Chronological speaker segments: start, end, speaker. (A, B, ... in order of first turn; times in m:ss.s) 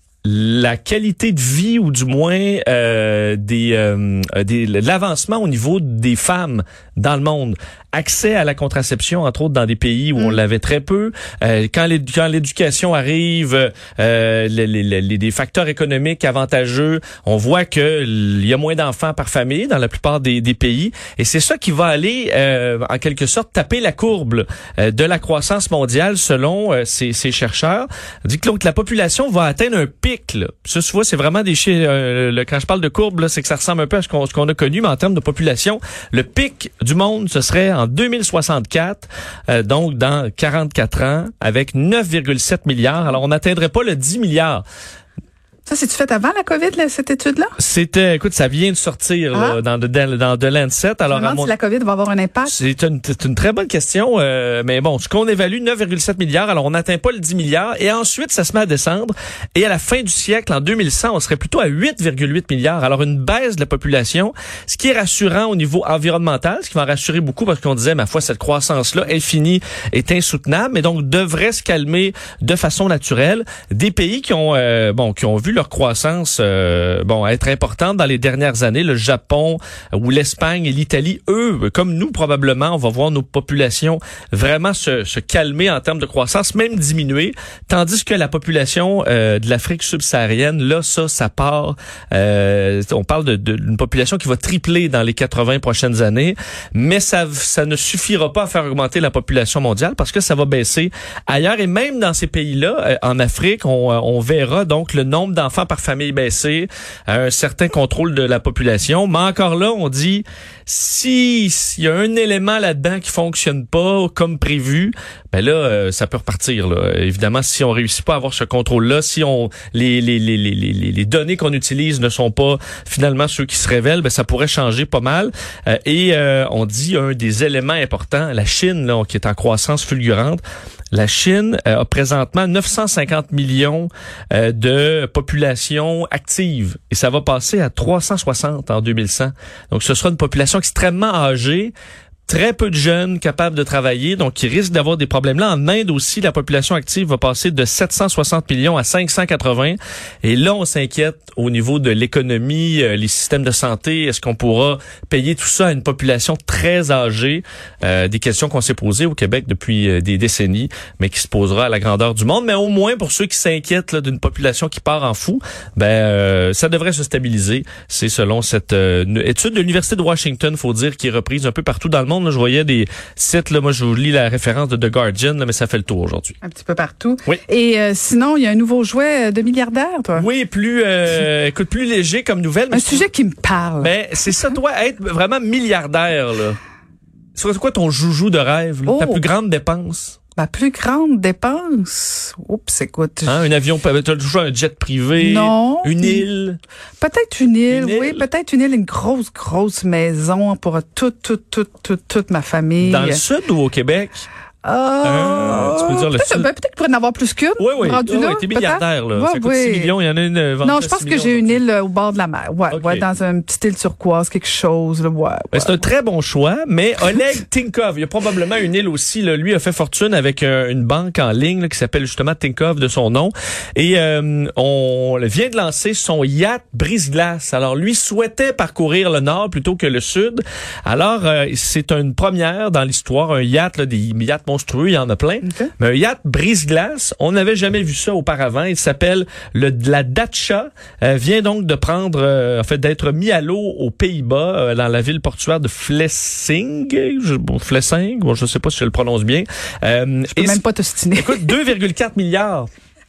0:00.2-0:44.6 A
0:45.7-0:47.5 B
0:47.6-0:51.5 A
0:49.3-0:49.6 B
0:51.1-0:52.6 B
0:52.5-2:10.4 A
2:10.9-2:21.7 A
2:22.3-2:56.4 A
2:56.4-3:00.3 B
3:00.2-3:03.1 A
3:02.7-3:03.9 B
3:03.8-3:06.6 A
3:07.4-3:10.2 A
3:08.9-3:09.3 B
3:10.4-3:13.5 B
3:13.3-3:16.6 A
3:15.2-3:16.2 B
3:17.0-3:23.2 B
3:17.7-3:18.2 A
3:22.8-3:24.3 A
3:24.6-3:29.9 B
3:25.0-3:26.5 A
3:27.6-3:31.6 A
3:30.6-3:35.8 B
3:32.7-3:33.0 A
3:35.5-4:10.6 A
3:55.4-3:55.7 B
4:10.3-4:11.5 B
4:11.2-4:12.7 A